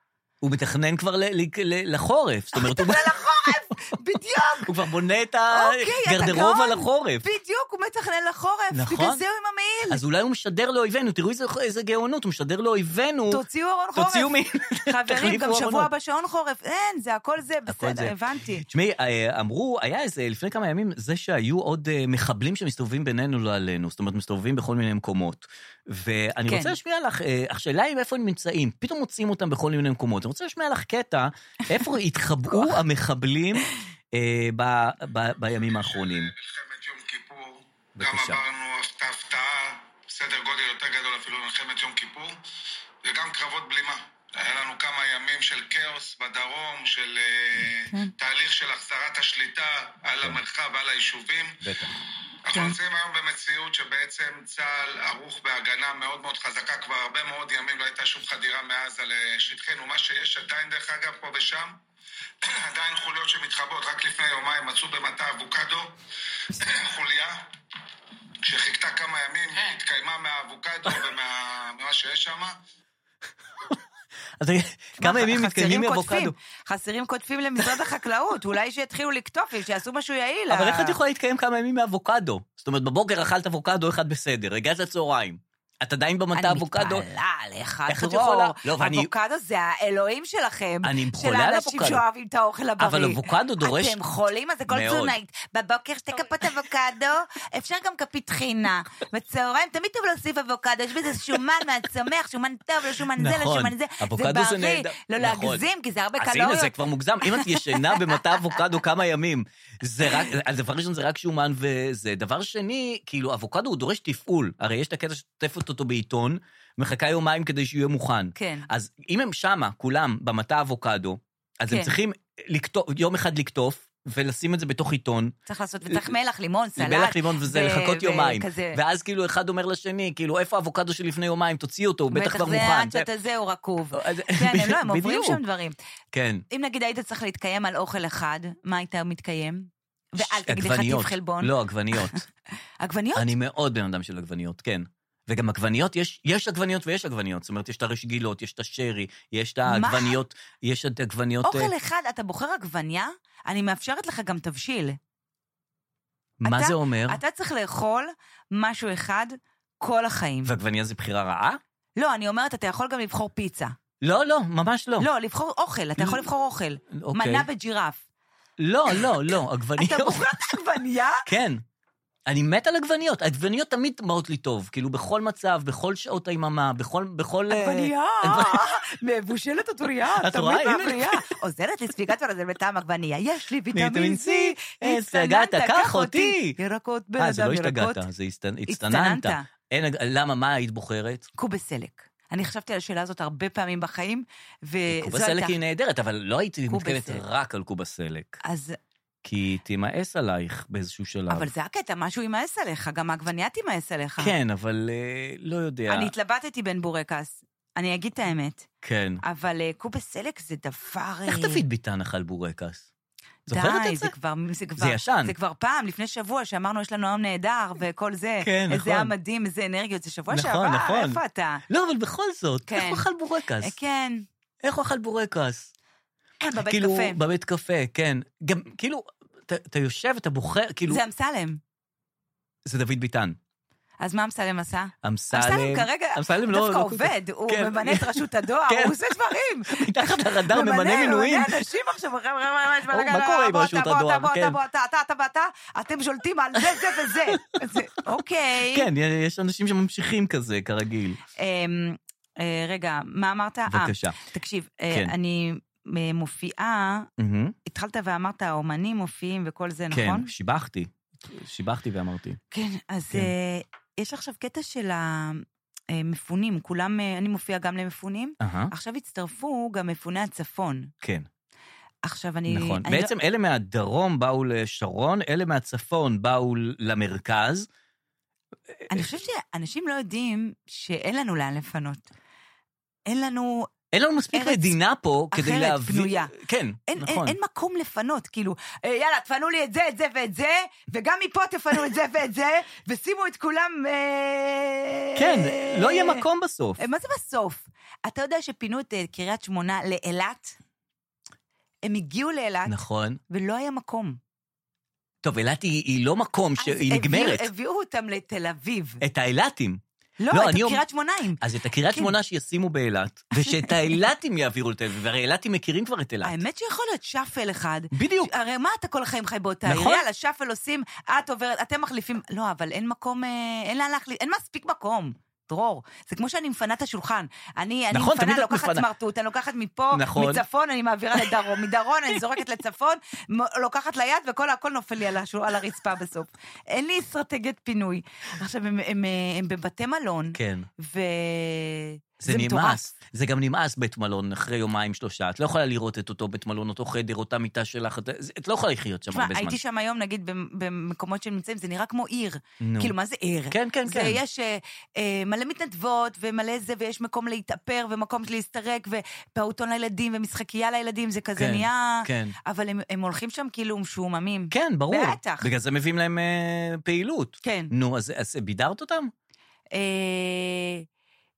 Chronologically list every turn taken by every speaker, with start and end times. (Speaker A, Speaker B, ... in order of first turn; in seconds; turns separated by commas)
Speaker A: 0.4-3.2, Speaker B: 2.5-4.7, Speaker A: 4.6-7.2, Speaker B: 5.5-10.0, Speaker A: 8.7-9.2, Speaker A: 9.9-13.4, Speaker B: 13.3-18.6, Speaker A: 13.9-15.9, Speaker A: 17.7-36.3, Speaker B: 26.5-26.8, Speaker B: 32.5-32.8, Speaker C: 35.8-42.4, Speaker A: 38.0-38.4, Speaker C: 43.0-51.9, Speaker A: 51.6-51.9, Speaker C: 52.5-61.8, Speaker C: 62.4-65.9, Speaker C: 66.5-67.4, Speaker C: 68.4-72.6, Speaker A: 74.4-76.3, Speaker B: 75.0-81.0, Speaker A: 80.5-87.0, Speaker B: 86.3-106.8, Speaker A: 87.9-89.1, Speaker A: 90.8-92.0, Speaker A: 92.8-94.0, Speaker A: 94.7-95.1, Speaker A: 103.1-105.7, Speaker A: 106.2-125.3, Speaker B: 107.3-108.1, Speaker B: 118.3-118.7, Speaker B: 121.7-121.9, Speaker B: 125.5-128.8, Speaker A: 126.8-133.1, Speaker B: 132.1-135.8, Speaker A: 133.9-135.4, Speaker A: 136.1-136.4, Speaker B: 136.5-142.2, Speaker A: 140.2-142.2, Speaker B: 142.8-143.3, Speaker A: 143.1-151.7, Speaker B: 149.7-150.2, Speaker B: 151.4-155.0, Speaker A: 156.4-157.2, Speaker B: 156.4-160.5, Speaker A: 160.4-161.6, Speaker B: 162.0-163.7, Speaker A: 164.0-165.1, Speaker B: 165.0-168.0, Speaker A: 166.0-166.2, Speaker A: 166.9-167.5, Speaker A: 168.6-170.3, Speaker B: 169.8-171.2, Speaker A: 171.2-171.6, Speaker A: 172.3-178.6, Speaker B: 177.5-188.0, Speaker A: 180.2-181.2, Speaker A: 183.7-186.6, Speaker A: 187.2-191.3, Speaker B: 188.7-189.4, Speaker B: 191.4-195.6, Speaker A: 194.9-198.4, Speaker B: 196.7-197.2, Speaker B: 198.4-198.8, Speaker A: 199.2-201.5, Speaker B: 201.3-204.3, Speaker A: 204.2-206.1, Speaker B: 205.9-208.7, Speaker A: 208.8-209.2, Speaker B: 209.2-211.6, Speaker A: 211.3-212.8, Speaker A: 213.5-214.1, Speaker B: 213.5-221.6, Speaker A: 214.8-215.3, Speaker A: 218.4-219.1, Speaker A: 220.3-223.7, Speaker B: 222.7-223.1, Speaker B: 223.6-224.2, Speaker A: 224.6-225.7, Speaker B: 226.4-227.2, Speaker A: 226.7-231.0, Speaker B: 230.9-231.6, Speaker A: 232.6-233.4, Speaker B: 234.0-248.9, Speaker A: 235.0-238.9, Speaker A: 239.7-241.7, Speaker A: 242.9-244.6, Speaker A: 246.6-247.8, Speaker A: 248.7-251.2, Speaker B: 251.4-257.1, Speaker A: 253.7-254.2, Speaker A: 257.2-257.6, Speaker B: 257.6-260.3, Speaker A: 259.9-262.4, Speaker B: 262.5-270.9, Speaker A: 268.4-268.7, Speaker A: 271.0-271.3, Speaker B: 272.0-273.1, Speaker A: 272.5-277.7, Speaker B: 278.9-282.0, Speaker B: 283.1-283.7, Speaker A: 283.9-287.4, Speaker B: 284.3-284.8, Speaker B: 285.3-286.3, Speaker B: 286.9-296.2, Speaker A: 295.1-296.8, Speaker B: 296.8-300.6, Speaker B: 301.8-302.8, Speaker A: 302.6-303.2, Speaker B: 303.3-304.2, Speaker A: 305.2-307.5, Speaker B: 306.6-309.0, Speaker A: 309.0-310.8, Speaker B: 310.2-312.1, Speaker A: 311.4-316.4, Speaker B: 313.4-313.9, Speaker B: 316.2-342.8, Speaker A: 317.9-318.3, Speaker A: 319.6-320.0, Speaker A: 327.9-328.9, Speaker A: 329.9-330.4, Speaker A: 340.3-340.7, Speaker A: 342.2-349.6, Speaker B: 349.1-365.5, Speaker A: 352.6-352.9, Speaker A: 353.5-354.2, Speaker A: 361.4-362.4, Speaker A: 364.5-369.1, Speaker B: 367.4-367.7, Speaker B: 369.7-370.9